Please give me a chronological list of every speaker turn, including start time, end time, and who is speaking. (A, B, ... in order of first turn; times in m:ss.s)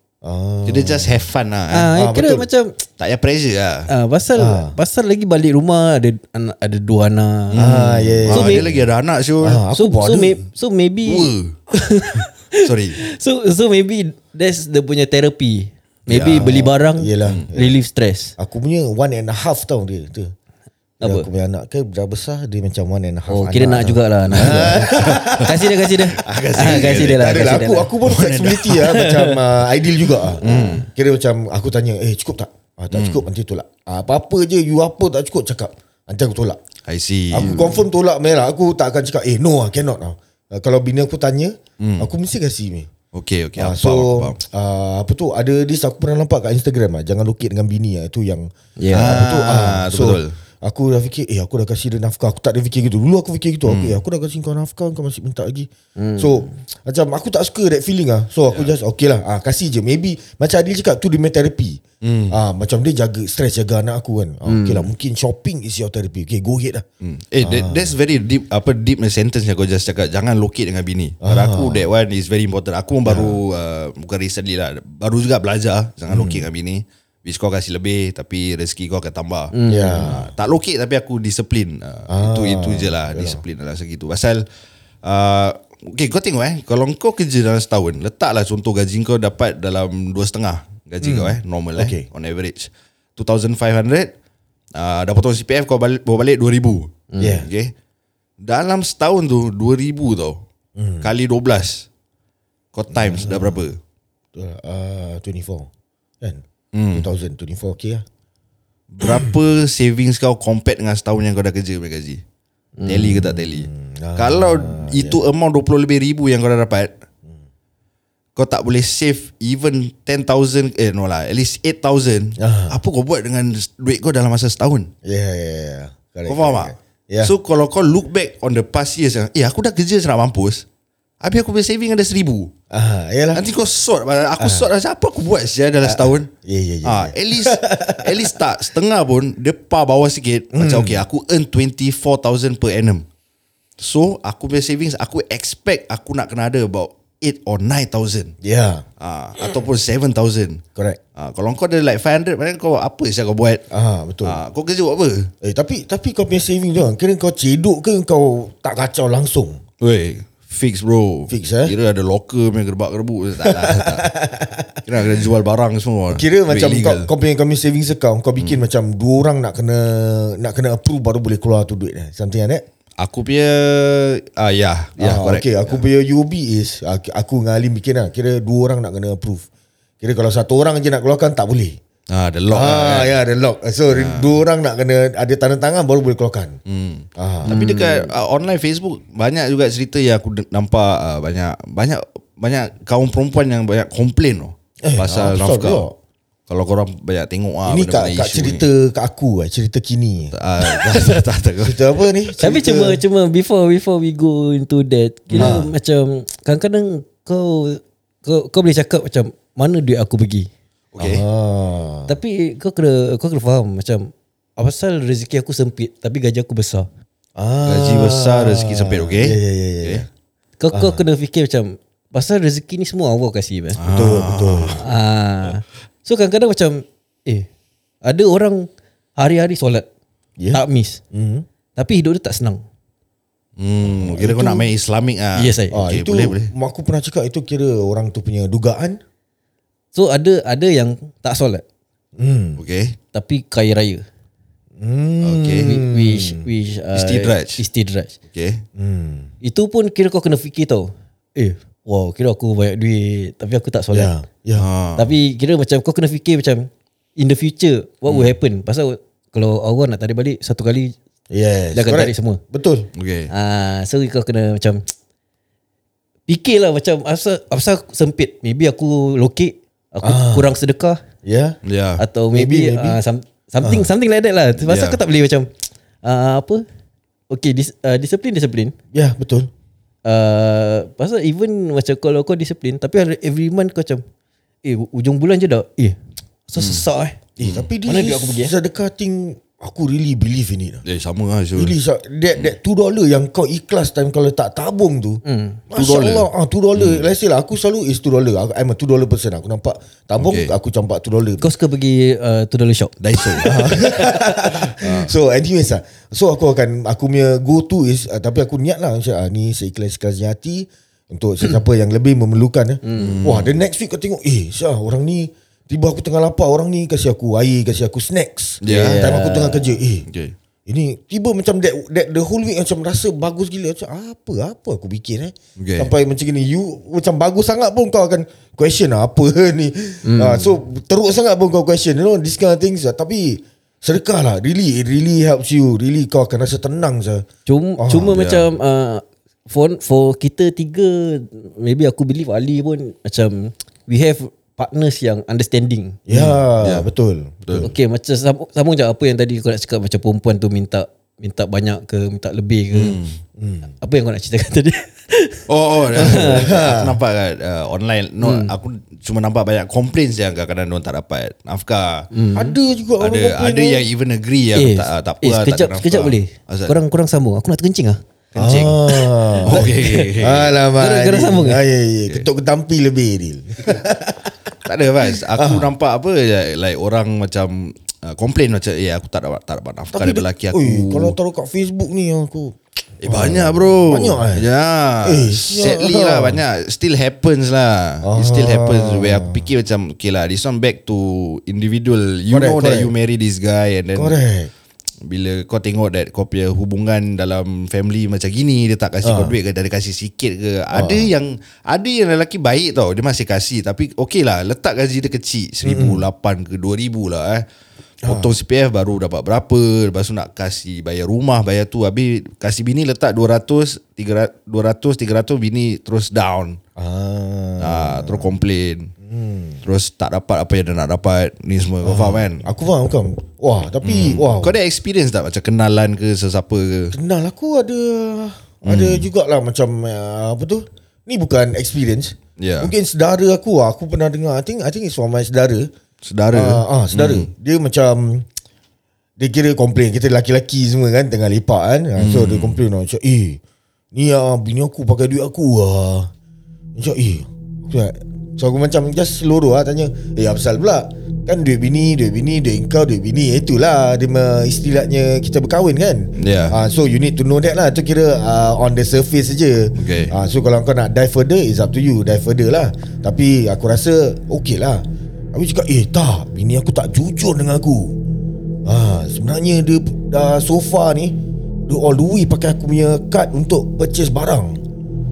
0:00.2-0:01.2 A
0:00.6-0:01.9 B
0:01.7-0:02.8 C
0:02.0-0:02.5 A
0:03.0-0:03.9 B
0:03.9-0:07.6 C
0:04.4-0:04.8 A
0:07.5-0:09.6 B
0:07.6-0:08.8 A
0:08.3-0:08.7 C
0:09.4-0:10.4 A
0:09.7-0:18.3 C
0:11.1-0:11.6 B
0:12.6-0:13.0 B
0:16.1-0:16.6 B
0:16.3-0:17.8 A
0:17.2-0:17.5 B
0:18.4-0:20.3 A
0:21.0-0:25.6 A
0:21.0-0:21.3 C
0:23.3-0:27.9 C
0:24.3-0:28.9 B
0:26.6-0:36.6 A
0:28.8-0:29.4 C
0:30.4-0:30.9 C
0:30.4-0:30.8 B
0:32.9-0:33.2 B
0:36.9-0:37.7 B
0:37.3-0:42.9 A
0:37.4-0:37.8 C
0:41.8-0:42.1 B
0:43.1-0:44.4 B
0:43.6-1:06.8 A
0:48.8-0:49.2 C
0:48.9-0:50.4 B
0:53.6-0:54.0 B
0:56.0-0:56.5 C
1:02.0-1:02.4 B
1:04.5-1:04.9 C
1:07.0-1:24.4 B
1:07.4-1:08.0 A
1:11.2-1:11.9 A
1:13.0-1:13.4 A
1:16.1-1:16.5 A
1:19.5-1:20.1 C
1:19.7-1:20.3 A
1:22.1-1:23.4 A
1:25.0-1:34.1 B
1:31.0-1:32.1 A
1:34.8-1:37.7 B
1:37.1-1:37.4 C
1:37.2-1:37.5 A
1:38.4-1:40.4 B
1:40.8-1:41.1 A
1:41.0-1:41.9 B
1:42.7-1:43.8 B
1:42.9-1:43.6 A
1:44.4-1:45.7 A
1:46.2-1:48.0 A
1:46.7-1:47.1 B
1:48.9-1:52.2 B
1:49.0-1:49.4 A
1:52.8-1:53.2 C
1:52.9-1:56.9 B
1:53.3-1:55.2 A
1:58.4-2:04.9 B
2:02.4-2:02.8 A
2:05.0-2:07.3 A
2:06.3-2:10.6 B
2:11.2-2:12.5 B
2:12.7-2:13.4 A
2:13.3-2:16.3 B
2:14.4-2:14.7 A
2:15.8-2:18.3 A
2:16.8-2:23.0 B
2:20.5-2:21.0 A
2:23.8-2:28.3 B
2:28.4-2:28.8 A
2:29.0-2:30.6 B
2:31.2-2:33.6 B
2:33.7-2:34.4 A
2:34.2-2:35.3 B
2:35.4-2:39.6 A
2:39.8-2:44.1 B
2:41.3-2:41.7 A
2:43.4-2:44.8 A
2:44.8-2:47.1 B
2:46.1-2:52.6 A
2:53.0-2:55.8 B
2:55.0-2:59.5 A
3:00.0-3:01.8 A
3:02.1-3:03.2 B
3:02.5-3:06.6 A
3:03.9-3:04.4 B
3:06.7-3:15.9 B
3:07.2-3:07.6 A
3:07.5-3:08.1 C
3:14.8-3:15.9 A
3:16.5-3:18.7 B
3:17.7-3:23.0 A
3:20.3-3:21.8 B
3:22.4-3:30.5 C
3:25.3-3:25.7 B
3:25.4-3:25.7 A
3:30.9-3:31.2 B
3:31.0-3:32.1 A
3:32.1-3:36.9 C
3:37.4-3:40.1 A
3:37.6-3:40.0 B
3:40.6-3:43.8 C
3:40.7-3:41.0 A
3:43.8-3:44.8 B
3:43.9-3:44.8 A
3:44.8-3:47.5 C
3:48.0-3:48.7 C
3:49.2-3:49.9 C
3:50.5-3:51.0 C
3:51.1-3:51.5 A
3:51.8-3:52.6 C
3:53.6-3:56.5 B
3:53.8-3:54.7 A
3:55.4-3:55.8 C
3:55.7-3:59.0 A
3:59.9-4:01.6 C
4:02.2-4:02.6 A
4:02.6-4:03.0 B
4:03.1-4:04.0 C
4:04.8-4:06.5 A
4:05.2-4:05.7 B
4:05.6-4:08.2 C
4:06.9-4:07.6 B
4:08.3-4:08.6 B
4:08.8-4:09.3 A
4:09.4-4:14.1 C
4:13.9-4:14.7 A
4:14.6-4:15.1 B
4:15.0-4:21.0 C
4:18.1-4:18.3 B
4:21.3-4:22.9 A
4:21.7-4:22.4 C
4:23.0-4:23.3 B
4:23.3-4:24.8 C
4:26.3-4:31.0 C
4:30.0-4:30.5 A
4:31.2-4:31.6 A
4:31.6-4:32.0 B
4:32.0-4:35.5 C
4:32.3-4:33.0 A
4:33.6-4:33.9 A
4:34.6-4:35.0 B
4:36.0-4:36.6 C
4:37.3-4:38.8 C
4:38.9-4:39.5 A
4:40.0-4:44.0 C
4:44.6-4:46.0 C
4:46.5-4:47.2 C
4:46.6-4:46.8 B
4:47.4-4:50.8 A
4:47.4-4:47.7 B
4:47.9-4:48.5 C
4:50.8-4:51.8 B
4:51.6-5:01.5 A
4:55.2-4:55.6 C
4:55.7-4:57.1 B
5:00.2-5:00.5 B
5:01.4-5:03.6 C
5:03.0-5:03.9 B
5:03.4-5:20.1 A
5:04.8-5:05.1 B
5:12.8-5:13.2 C
5:13.0-5:13.6 B
5:18.6-5:19.1 B
5:18.7-5:19.8 C
5:20.1-5:20.4 B
5:20.7-5:37.3 A
5:25.6-5:25.9 B
5:30.0-5:30.5 C
5:37.5-5:46.0 C
5:37.8-5:38.2 A
5:38.1-5:38.5 B
5:46.1-5:47.7 A
5:46.1-5:46.9 B
5:47.6-5:53.0 C
5:52.7-5:53.2 B
5:53.4-5:53.7 A
5:53.8-5:56.5 C
5:55.5-6:02.1 B
5:56.0-5:57.0 A
5:58.2-5:58.5 C
6:02.1-6:02.6 C
6:02.4-6:03.8 A
6:03.0-6:06.8 B
6:04.6-6:08.0 C
6:08.4-6:10.6 B
6:08.4-6:14.3 A
6:09.4-6:10.1 C
6:10.8-6:11.6 C
6:14.6-6:21.2 B
6:15.2-6:15.7 A
6:19.9-6:24.5 A
6:23.0-6:34.2 B
6:25.0-6:26.4 A
6:28.0-6:29.4 A
6:32.3-6:32.9 A
6:33.9-6:34.5 A
6:35.0-6:47.5 B
6:39.0-6:39.4 A
6:40.7-6:41.1 A
6:45.6-6:46.0 A
6:48.0-6:48.3 A
6:48.0-6:56.6 B
6:56.8-6:58.3 A
6:57.6-6:58.9 B
6:59.0-6:59.6 A
6:59.6-7:02.5 B
7:01.8-7:04.6 A
7:03.8-7:06.9 B
7:06.9-7:15.7 A
7:08.6-7:09.1 B
7:12.4-7:12.7 B
7:16.0-7:17.3 B
7:16.3-7:18.3 A
7:19.2-7:23.4 A
7:22.0-7:22.6 B
7:23.9-7:26.1 A
7:26.8-7:48.0 A
7:36.2-7:36.6 B
7:39.8-7:40.1 B
7:48.6-7:51.2 A
7:51.7-7:54.6 A